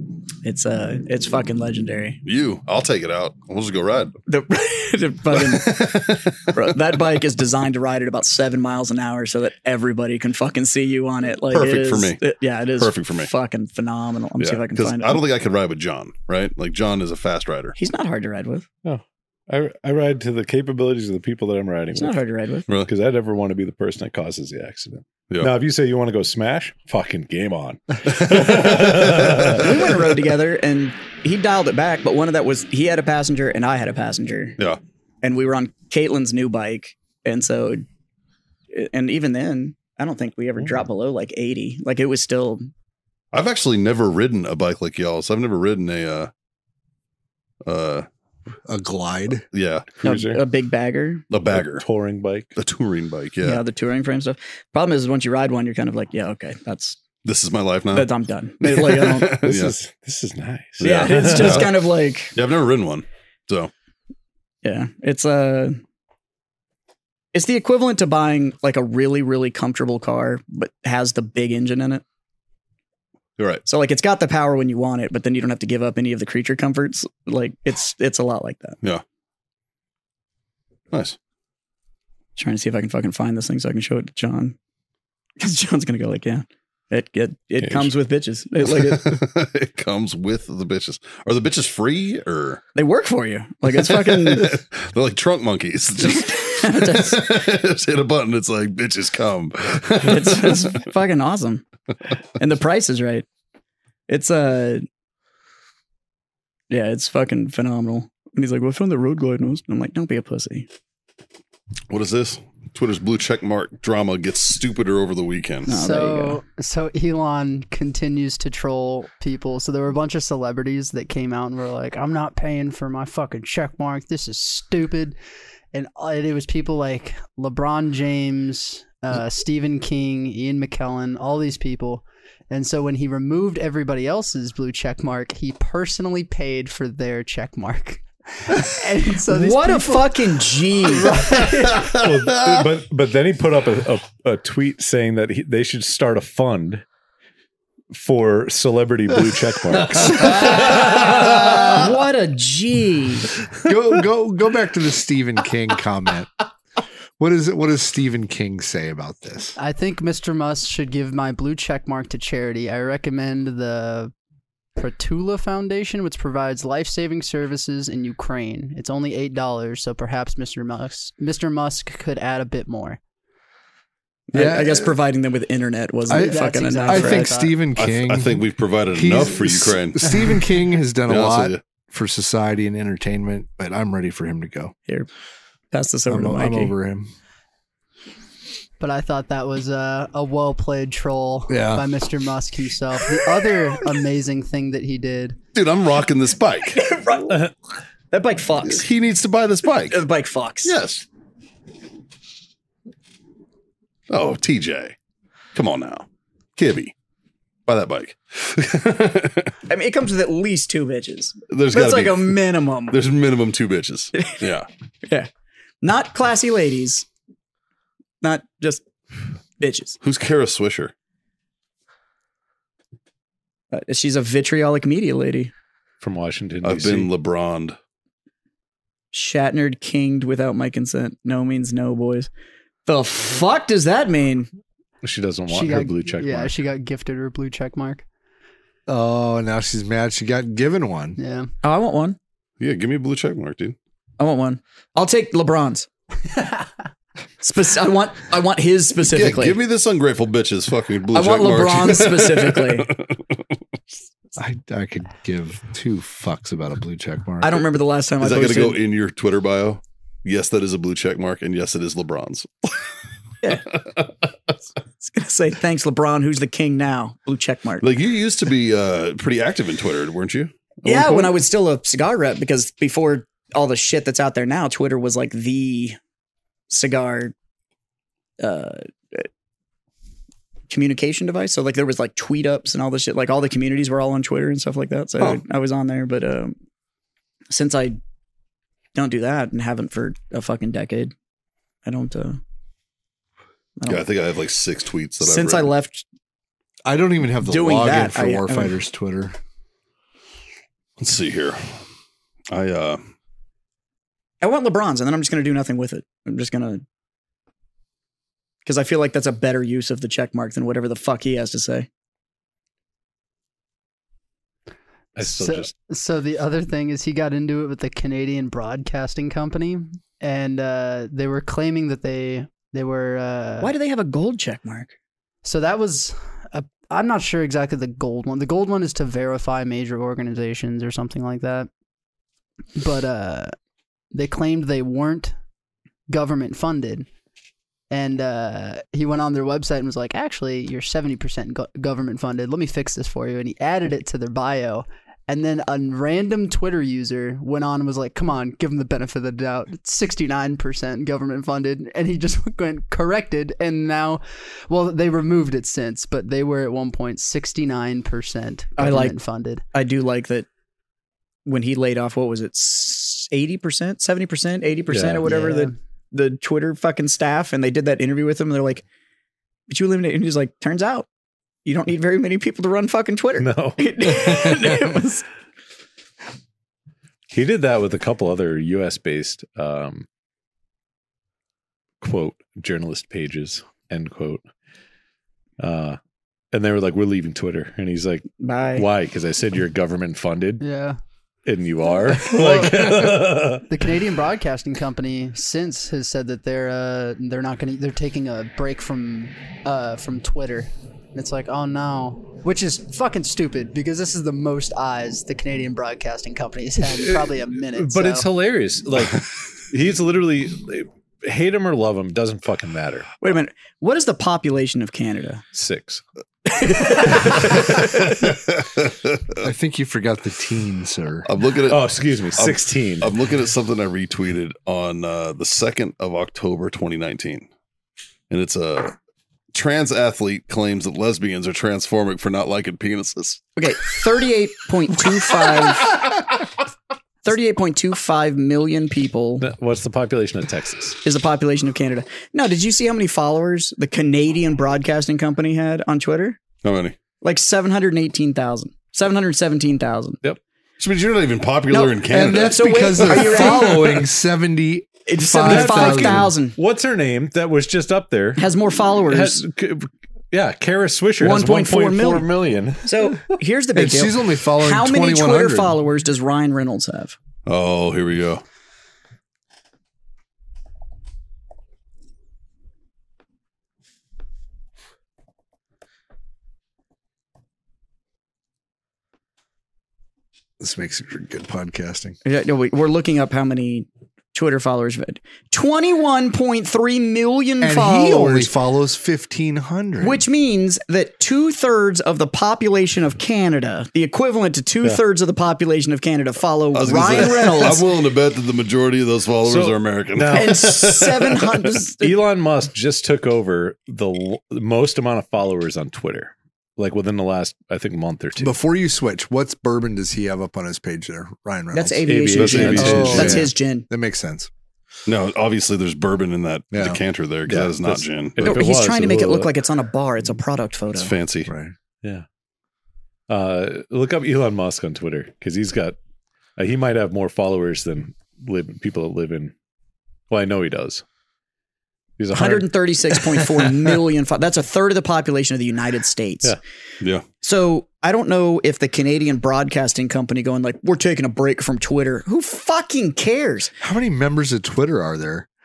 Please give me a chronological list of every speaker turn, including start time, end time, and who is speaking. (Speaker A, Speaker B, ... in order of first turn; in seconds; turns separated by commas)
Speaker A: 0.4-2.2, Speaker B: 2.2-4.1, Speaker A: 4.3-15.2, Speaker B: 5.3-6.6, Speaker B: 11.5-12.2, Speaker B: 12.8-13.3, Speaker B: 14.4-17.7, Speaker A: 17.8-18.6, Speaker C: 18.8-22.2, Speaker A: 21.9-22.7, Speaker C: 22.9-29.7, Speaker B: 28.1-29.9, Speaker A: 29.5-34.6, Speaker A: 35.2-37.8, Speaker A: 38.7-42.7, Speaker B: 43.3-46.3, Speaker B: 47.6-48.0, Speaker D: 48.7-49.4, Speaker B: 49.5-50.0, Speaker C: 50.0-50.4, Speaker A: 50.0-51.2, Speaker B: 51.3-51.8, Speaker C: 51.5-52.5, Speaker B: 52.5-53.6, Speaker A: 53.4-57.0, Speaker B: 57.2-59.7, Speaker A: 57.9-59.4, Speaker C: 59.4-61.7, Speaker B: 60.8-61.8, Speaker A: 60.8-62.4, Speaker B: 62.3-63.7, Speaker A: 64.6-65.8, Speaker A: 67.3-72.0, Speaker B: 73.4-73.6, Speaker A: 73.7-78.8, Speaker B: 80.9-81.2, Speaker A: 82.3-84.5, Speaker A: 85.4-89.2, Speaker C: 87.6-87.9, Speaker B: 88.9-92.6, Speaker A: 92.7-94.6, Speaker B: 93.7-100.8, Speaker A: 96.0-97.4, Speaker A: 100.0-101.6, Speaker A: 102.4-103.2, Speaker A: 104.1-104.8, Speaker A: 106.7-110.7, Speaker B: 111.9-115.7, Speaker A: 115.7-116.4, Speaker E: 115.7-125.2, Speaker E: 125.7-140.2, Speaker A: 139.3-141.3, Speaker E: 140.9-141.8, Speaker C: 141.3-146.8, Speaker C: 147.9-151.4, Speaker D: 149.9-150.4, Speaker A: 150.1-153.3, Speaker D: 153.6-156.3, Speaker D: 157.2-159.6, Speaker E: 159.6-164.1, Speaker E: 164.8-173.0, Speaker A: 174.3-177.3, Speaker D: 174.3-174.9, Speaker D: 176.1-184.7, Speaker E: 176.1-177.6, Speaker B: 177.8-180.3, Speaker B: 181.1-181.6, Speaker A: 185.7-186.7, Speaker D: 186.1-187.1, Speaker E: 188.8-195.4, Speaker D: 191.5-191.8, Speaker B: 195.5-196.8, Speaker A: 196.7-197.5, Speaker A: 198.1-198.9, Speaker B: 198.7-200.0, Speaker A: 199.9-200.7, Speaker B: 200.6-201.0, Speaker B: 204.1-204.9, Speaker B: 205.5-206.9, Speaker B: 207.7-209.5, Speaker A: 209.7-213.0, Speaker B: 211.5-212.4, Speaker B: 212.9-214.7, Speaker A: 215.8-217.1, Speaker A: 218.2-218.8, Speaker A: 219.6-220.0, Speaker B: 220.0-220.9, Speaker A: 223.7-225.5, Speaker C: 226.0-227.1, Speaker B: 226.6-227.8, Speaker A: 229.1-232.3, Speaker A: 232.8-234.5, Speaker C: 235.0-236.6, Speaker E: 235.5-238.0, Speaker D: 238.9-241.2, Speaker E: 241.2-241.5, Speaker A: 241.6-242.2, Speaker B: 242.6-243.8, Speaker A: 244.2-245.9, Speaker A: 247.4-249.6, Speaker B: 249.0-253.2, Speaker A: 251.1-252.9, Speaker D: 254.3-257.6, Speaker A: 257.4-258.8, Speaker B: 258.2-262.8, Speaker A: 263.4-263.7, Speaker B: 263.8-264.1, Speaker A: 265.0-267.9, Speaker B: 267.8-271.3, Speaker A: 270.8-276.0, Speaker A: 276.7-277.3, Speaker A: 278.4-279.3, Speaker A: 280.7-286.6, Speaker A: 287.5-288.0, Speaker A: 288.9-291.1, Speaker A: 291.8-292.4, Speaker A: 293.8-294.1, Speaker B: 293.9-295.7, Speaker A: 295.2-296.0, Speaker D: 296.9-299.4, Speaker A: 297.4-298.8, Speaker B: 301.0-301.8, Speaker B: 302.5-303.0, Speaker A: 304.4-306.8, Speaker A: 308.6-311.9, Speaker C: 315.1-315.7, Speaker E: 315.2-323.7, Speaker A: 323.6-324.9, Speaker E: 325.4-331.7, Speaker E: 332.8-333.5, Speaker E: 334.1-335.4, Speaker E: 336.1-337.1, Speaker E: 337.9-359.6, Speaker A: 358.8-359.1, Speaker A: 359.7-360.5, Speaker A: 361.4-368.8, Speaker C: 364.9-365.2, Speaker E: 365.2-365.7, Speaker A: 369.7-371.1, Speaker A: 371.6-375.2, Speaker C: 373.4-374.8, Speaker C: 377.3-380.1, Speaker C: 382.0-384.4, Speaker C: 385.6-386.0, Speaker C: 386.5-390.6, Speaker A: 388.4-388.9, Speaker E: 390.6-391.0, Speaker C: 391.4-393.6, Speaker E: 392.1-408.3, Speaker C: 406.9-413.1, Speaker A: 413.2-415.4, Speaker C: 415.5-416.0, Speaker A: 416.5-417.7, Speaker B: 417.6-419.4, Speaker D: 419.4-421.3, Speaker B: 421.2-427.5, Speaker C: 421.7-423.1, Speaker B: 428.3-428.9, Speaker B: 429.5-433.4, Speaker A: 433.6-436.0, Speaker A: 437.2-439.4, Speaker C: 439.4-441.0, Speaker A: 441.0-446.4, Speaker B: 446.6-446.9, Speaker A: 447.2-450.2, Speaker B: 450.8-453.7, Speaker A: 451.7-454.0, Speaker D: 452.1-456.3, Speaker A: 455.1-456.6, Speaker C: 455.4-458.4, Speaker A: 458.4-459.4, Speaker C: 459.1-463.1, Speaker A: 461.2-462.3, Speaker A: 462.8-467.1, Speaker D: 463.7-465.8, Speaker B: 467.4-468.4, Speaker D: 480.6-482.1, Speaker A: 482.2-488.5, Speaker D: 487.6-490.2, Speaker A: 490.0-497.9, Speaker B: 496.7-501.5, Speaker C: 499.4-501.0, Speaker A: 500.3-502.2, Speaker C: 502.0-508.5, Speaker D: 508.4-514.5, Speaker A: 511.7-513.9, Speaker C: 512.1-513.5, Speaker B: 512.4-513.3, Speaker B: 515.0-518.6, Speaker D: 516.7-517.0, Speaker C: 517.5-519.5, Speaker A: 518.4-521.1, Speaker B: 520.9-521.5, Speaker D: 521.5-521.7, Speaker C: 523.3-526.0, Speaker C: 526.6-529.5, Speaker C: 530.3-531.0, Speaker C: 532.2-533.7, Speaker A: 532.3-536.6, Speaker A: 537.4-543.7, Speaker D: 543.8-545.5